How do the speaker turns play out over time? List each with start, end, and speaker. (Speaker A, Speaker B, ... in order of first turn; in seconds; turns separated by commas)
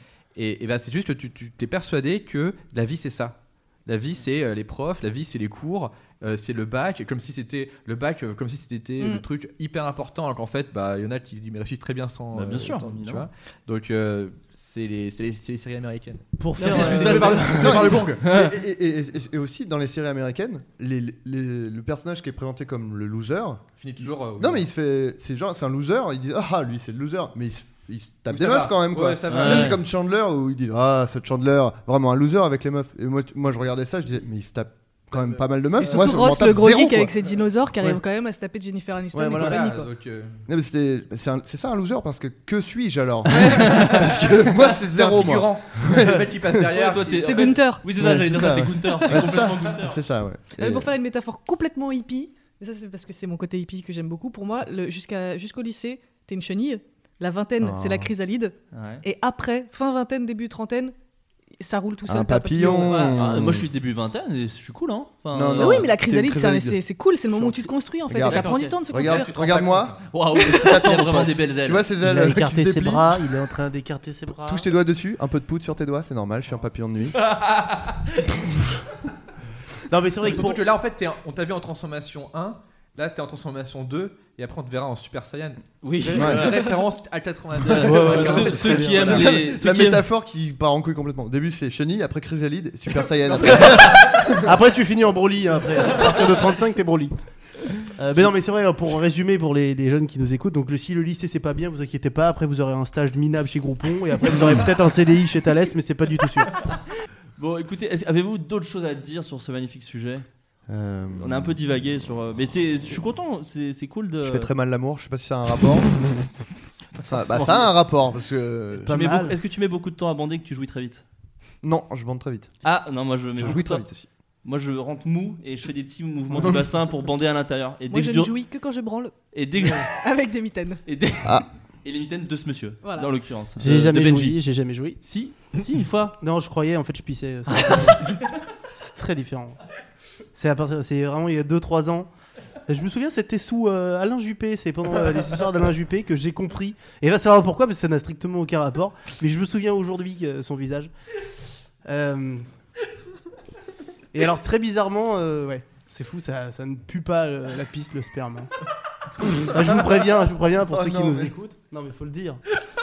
Speaker A: 0.3-3.3, Speaker A: 3.9-18.2, Speaker B: 9.0-9.2, Speaker C: 12.3-13.2, Speaker D: 16.4-18.2, Speaker C: 16.6-18.5, Speaker E: 17.5-23.7, Speaker A: 23.8-24.6, Speaker E: 24.3-38.0, Speaker A: 28.3-29.8, Speaker C: 29.3-29.8, Speaker A: 35.1-36.1, Speaker B: 35.8-39.9, Speaker E: 39.1-39.6, Speaker A: 39.3-40.4, Speaker E: 40.5-46.7, Speaker B: 43.3-43.7, Speaker C: 43.6-45.7, Speaker A: 45.8-47.5, Speaker C: 46.7-50.0, Speaker B: 47.1-47.9, Speaker E: 47.9-50.9, Speaker B: 49.0-49.5, Speaker B: 50.6-60.9, Speaker E: 57.6-58.1, Speaker C: 58.7-59.0, Speaker B: 61.6-63.2, Speaker E: 62.1-63.7, Speaker C: 63.0-65.9, Speaker E: 65.3-66.8, Speaker B: 65.6-69.3, Speaker E: 68.1-73.4, Speaker C: 68.2-71.9, Speaker D: 72.0-74.7, Speaker E: 74.5-77.2, Speaker C: 77.2-78.5, Speaker D: 79.9-80.7, Speaker A: 80.2-89.0, Speaker C: 85.8-86.8, Speaker E: 86.2-86.4, Speaker C: 87.6-90.0, Speaker D: 87.8-89.4, Speaker E: 87.9-94.5, Speaker D: 93.4-97.1, Speaker D: 97.8-106.7, Speaker C: 107.4-110.2, Speaker E: 110.7-111.6, Speaker C: 111.1-114.5, Speaker E: 114.2-116.1, Speaker C: 117.0-117.6, Speaker D: 117.1-117.7, Speaker E: 117.1-119.0, Speaker D: 118.7-119.3, Speaker C: 118.9-121.0, Speaker E: 121.6-122.5, Speaker C: 122.6-123.9, Speaker E: 123.3-124.1, Speaker C: 124.4-128.3, Speaker D: 126.3-126.6, Speaker B: 127.9-130.8, Speaker C: 129.3-130.0, Speaker C: 130.8-134.4, Speaker B: 132.8-133.1, Speaker D: 133.6-135.0, Speaker C: 135.0-136.2, Speaker D: 136.2-139.7, Speaker D: 140.3-142.1, Speaker D: 142.7-150.9, Speaker D: 151.8-152.5, Speaker D: 154.1-158.5, Speaker D: 159.2-162.4, Speaker E: 160.7-161.3